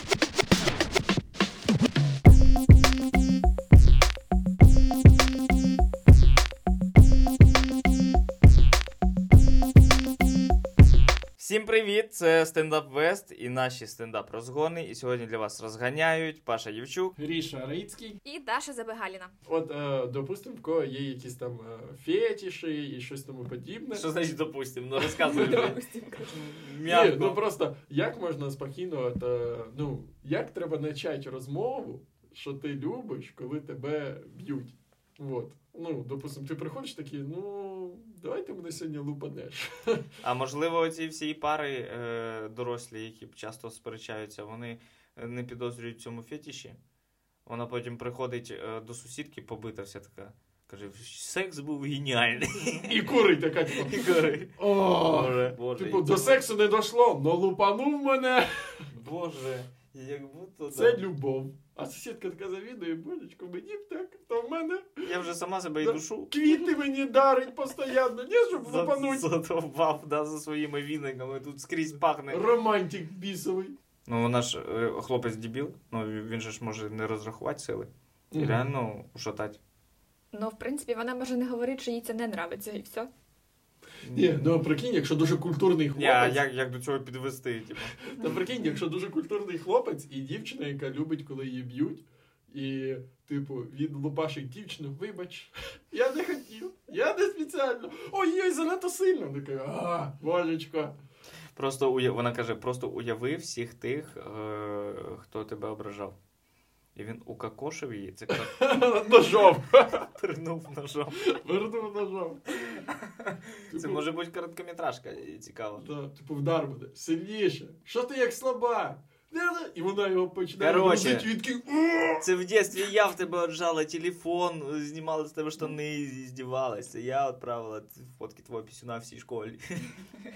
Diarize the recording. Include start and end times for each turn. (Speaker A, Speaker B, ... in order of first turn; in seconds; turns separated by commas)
Speaker A: 11.4-17.1, Speaker B: 17.1-18.2, Speaker C: 18.2-19.3, Speaker B: 19.5-24.1, Speaker A: 23.9-25.8, Speaker B: 25.2-25.7, Speaker C: 25.3-26.4, Speaker A: 26.3-27.4, Speaker B: 26.8-40.0, Speaker A: 40.2-46.8, Speaker A: 47.5-53.0, Speaker B: 52.8-54.0, Speaker A: 53.7-56.4, Speaker B: 54.6-58.8, Speaker A: 58.9-61.0, Speaker B: 60.7-65.2, Speaker A: 65.0-66.4, Speaker B: 65.8-69.3, Speaker A: 68.5-72.5, Speaker B: 72.3-73.7, Speaker A: 74.1-79.6, Speaker B: 78.3-78.7, Speaker C: 80.3-83.1, Speaker A: 84.0-84.3, Speaker B: 84.1-86.4, Speaker A: 85.9-88.1, Speaker B: 88.1-101.0, Speaker A: 101.5-106.2, Speaker A: 107.0-108.7, Speaker B: 108.3-110.1, Speaker A: 110.1-111.2, Speaker B: 111.2-112.7, Speaker A: 113.3-115.8, Speaker B: 113.7-114.0, Speaker B: 115.8-122.3, Speaker A: 120.6-121.3, Speaker A: 122.2-129.9